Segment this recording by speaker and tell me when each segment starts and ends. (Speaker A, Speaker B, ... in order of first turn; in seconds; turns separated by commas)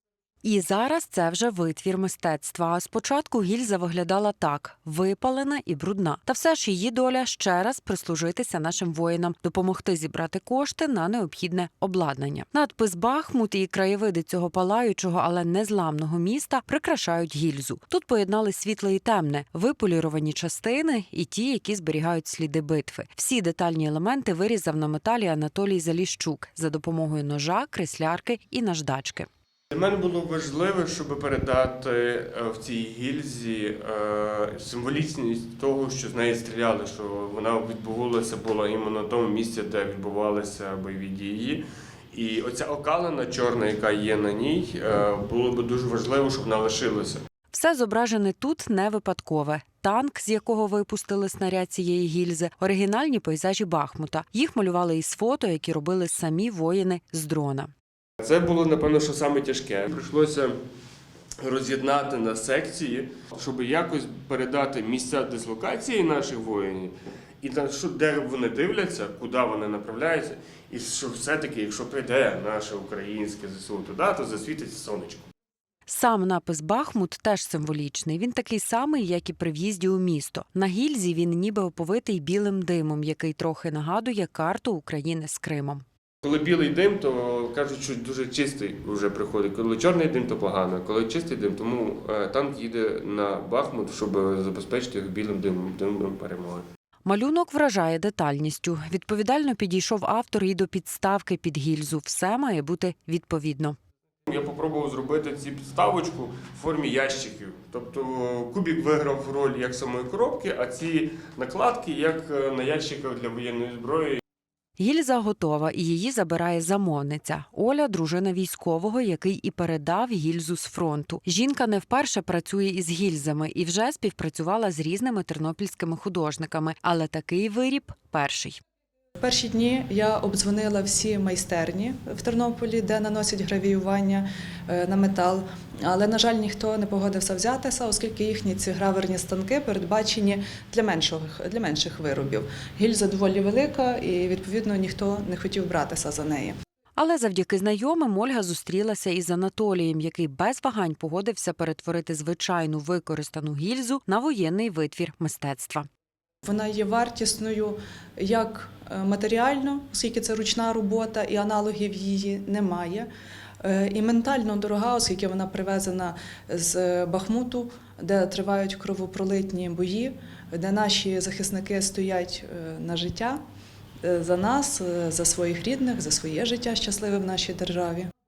Speaker A: 0.4-29.3, Speaker B: 29.7-47.2, Speaker A: 47.5-57.7, Speaker B: 58.2-60.5, Speaker B: 61.4-75.3, Speaker A: 75.9-85.8, Speaker B: 86.2-96.7, Speaker A: 97.0-103.8, Speaker B: 104.3-114.2, Speaker A: 114.8-128.6, Speaker C: 129.2-146.6, Speaker A: 147.0-155.9, Speaker C: 156.4-163.1, Speaker C: 163.6-173.4, Speaker C: 174.0-178.1